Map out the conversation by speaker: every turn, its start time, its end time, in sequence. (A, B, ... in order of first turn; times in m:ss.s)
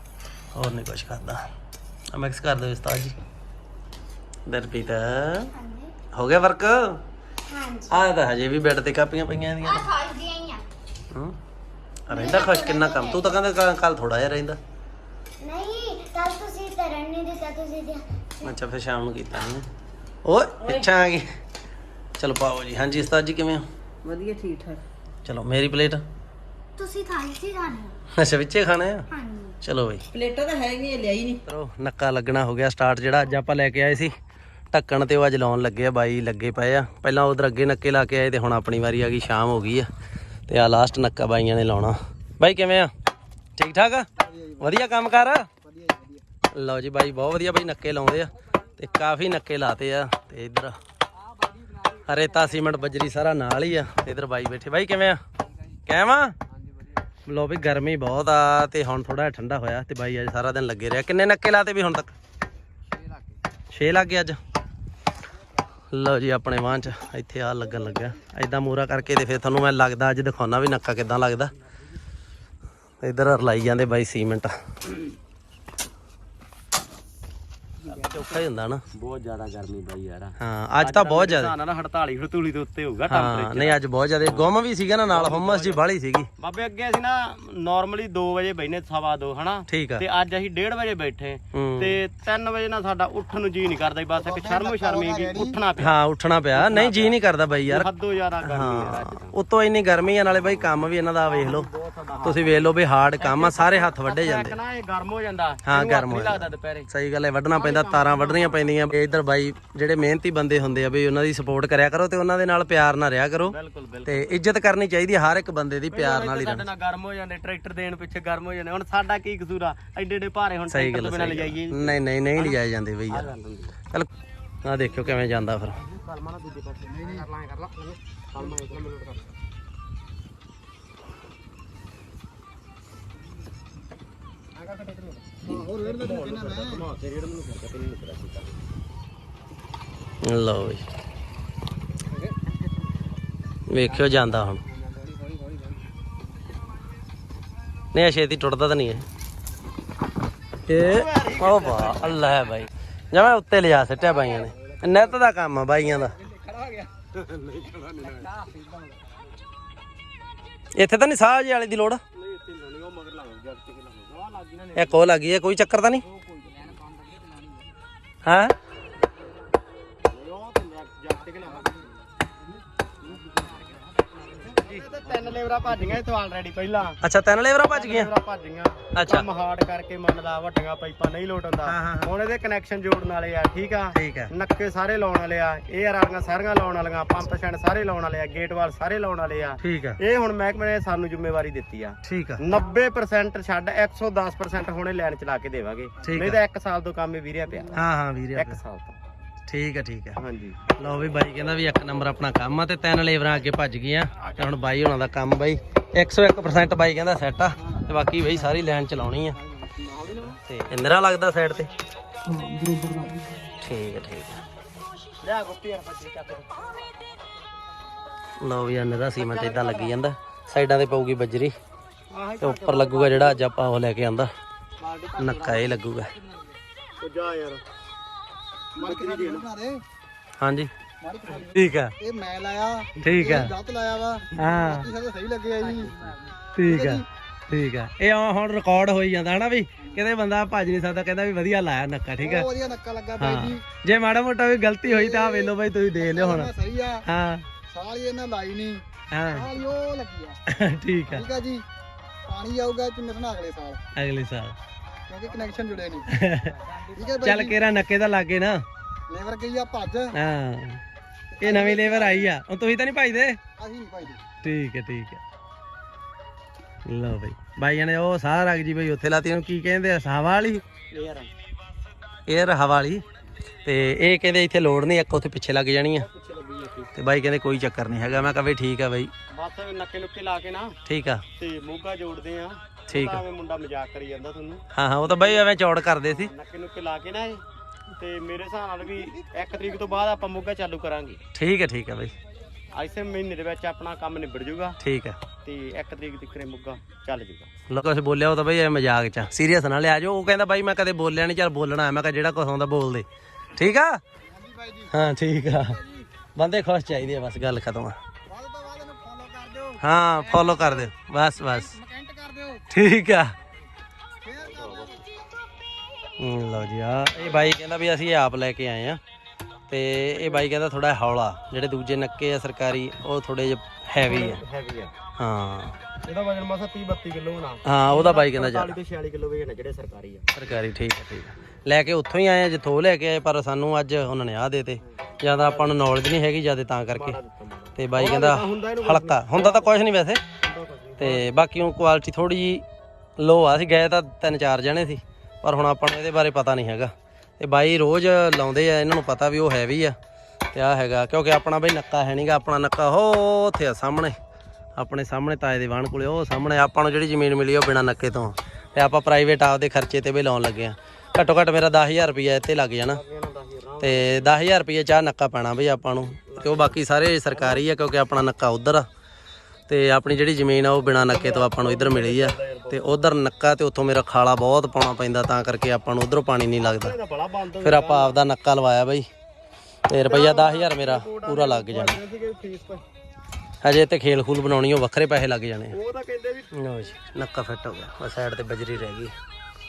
0:00.5-0:01.5 A
0:02.1-0:03.2 A
0:04.5-0:05.5 A
0:05.5-0:05.9 B
0:06.1-0:07.0 A
0:07.5-0:08.1 B
0:07.9-0:09.9 A
0:09.6-0:10.6 B
0:11.1-0:11.4 A
0:12.1-0:14.6 A
0:12.1-0:13.4 B
0:15.4-0:18.5 B
0:18.4-0:19.7 A
0:20.2-0:21.3 A
0:22.2-0:23.6 A
0:24.0-0:24.8 C
0:25.2-0:26.0 A
0:26.8-0:28.0 B
0:28.1-0:29.1 A
0:29.1-0:29.6 B
0:29.6-0:30.0 A
0:30.4-0:31.4 C
0:31.5-0:34.1 A
0:34.7-0:39.9 A
0:40.5-0:42.9 A
0:43.6-0:45.5 A
0:44.2-0:44.8 D
0:45.6-0:46.2 D
0:46.5-0:50.8 A
0:51.8-0:55.2 A
0:55.8-0:56.3 A
0:57.2-1:02.1 A
1:03.7-1:04.4 A
1:05.9-1:11.5 A
1:13.0-1:14.5 A
1:17.9-1:18.8 A
1:18.9-1:24.5 E
1:20.4-1:21.5 A
1:23.1-1:26.3 A
1:25.1-1:25.8 E
1:26.4-1:35.9 E
1:29.7-1:30.0 A
1:31.5-1:31.9 A
1:34.2-1:35.6 D
1:35.8-1:37.9 A
1:36.5-1:39.4 E
1:38.4-1:41.7 A
1:40.2-1:46.9 E
1:42.2-1:44.6 A
1:45.6-1:56.6 A
1:47.5-1:48.8 E
1:53.4-1:54.4 E
1:55.9-2:03.7 E
2:00.7-2:03.3 A
2:04.6-2:05.8 A
2:05.8-2:09.3 E
2:06.9-2:07.2 D
2:14.5-2:18.6 E
2:15.4-2:16.8 D
2:20.2-2:20.8 A
2:23.7-2:24.6 A
2:24.8-2:25.6 E
2:27.9-2:29.0 A
2:30.7-2:36.2 A
2:30.7-2:32.3 E
2:34.1-2:35.2 E
2:36.4-2:38.6 E
2:40.8-2:42.0 A
2:42.2-2:45.1 E
2:44.7-2:46.0 A
2:46.1-2:47.2 E
2:48.2-2:48.5 A
2:50.1-2:51.9 E
2:53.0-2:57.0 E
2:57.0-2:58.1 A
2:57.7-3:17.8 E
2:58.9-2:59.2 A
3:01.6-3:02.1 A
3:03.9-3:04.3 A
3:09.6-3:10.0 A
3:12.0-3:12.4 A
3:16.0-3:16.4 A
3:17.7-3:18.6 A
3:18.3-3:19.0 E
3:19.5-3:20.2 A
3:20.2-3:20.6 E
3:20.8-3:29.4 A
3:29.8-3:30.4 E
3:30.4-3:31.7 A
3:32.5-3:32.9 C
3:33.6-3:34.4 A
3:35.2-3:37.1 E
3:38.4-3:41.5 A
3:39.2-3:39.9 E
3:42.1-3:43.4 E
3:42.4-3:44.3 A
3:44.8-3:45.8 E
3:45.2-3:46.1 A
3:47.0-3:47.6 E
3:48.8-3:49.5 E
3:48.8-3:49.8 D
3:50.4-3:50.7 A
3:51.0-3:56.0 D
3:51.5-3:51.9 A
3:53.0-3:53.5 A
3:54.4-3:54.9 A
3:55.7-3:56.1 E
3:56.5-4:02.5 A
3:56.6-3:57.0 D
4:02.2-4:03.6 D
4:03.2-4:06.5 A
4:04.8-4:07.0 D
4:07.0-4:07.4 A
4:07.7-4:10.4 D
4:09.1-4:09.5 A
4:10.5-4:11.3 A
4:11.1-4:11.6 D
4:12.2-4:13.8 D
4:13.9-4:14.5 A
4:15.1-4:16.1 D
4:16.1-4:16.6 A
4:16.6-4:17.0 E
4:16.9-4:17.6 D
4:17.2-4:18.6 A
4:19.1-4:20.1 D
4:20.1-4:20.8 A
4:21.4-4:22.3 D
4:21.4-4:23.4 A
4:23.6-4:24.2 D
4:24.4-4:25.2 A
4:26.8-4:30.6 A
4:30.9-4:31.3 E
4:32.3-4:33.0 A
4:33.6-4:36.1 A
4:36.0-4:36.9 E
4:36.9-4:39.1 A
4:39.3-4:40.7 E
4:40.8-4:41.2 A
4:41.4-4:45.4 E
4:42.9-4:43.2 A
4:44.7-4:46.3 A
4:46.0-4:47.4 E
4:48.0-4:51.2 E
4:51.3-4:52.1 A
4:52.7-4:54.8 E
4:54.8-4:55.2 A
4:55.4-4:57.5 E
4:57.7-5:04.0 A
5:04.3-5:05.0 D
5:04.9-5:05.8 A
5:05.7-5:06.0 D
5:06.4-5:08.0 A
5:08.3-5:10.9 D
5:09.8-5:11.8 A
5:11.5-5:12.7 D
5:12.7-5:13.3 A
5:14.2-5:15.0 D
5:14.4-5:15.0 E
5:16.2-5:19.0 A
5:19.7-5:24.4 A
5:20.1-5:20.4 E
5:24.0-5:24.9 E
5:25.2-5:25.8 A
5:26.0-5:30.3 E
5:27.6-5:28.7 A
5:30.3-5:37.2 A
5:35.0-5:35.8 E
5:36.9-5:39.8 E
5:37.8-5:40.2 A
5:40.4-5:41.3 E
5:41.0-5:42.6 A
5:43.2-5:49.9 A
5:50.5-5:54.1 A
5:54.8-6:03.0 A
6:02.8-6:04.3 E
6:03.8-6:08.8 A
6:06.3-6:07.7 E
6:09.7-6:17.0 A
6:10.9-6:13.0 E
6:16.6-6:18.2 E
6:17.6-6:19.1 A
6:19.9-6:22.0 A
6:20.0-6:22.8 E
6:23.6-6:25.7 A
6:25.7-6:26.5 E
6:26.5-6:29.1 A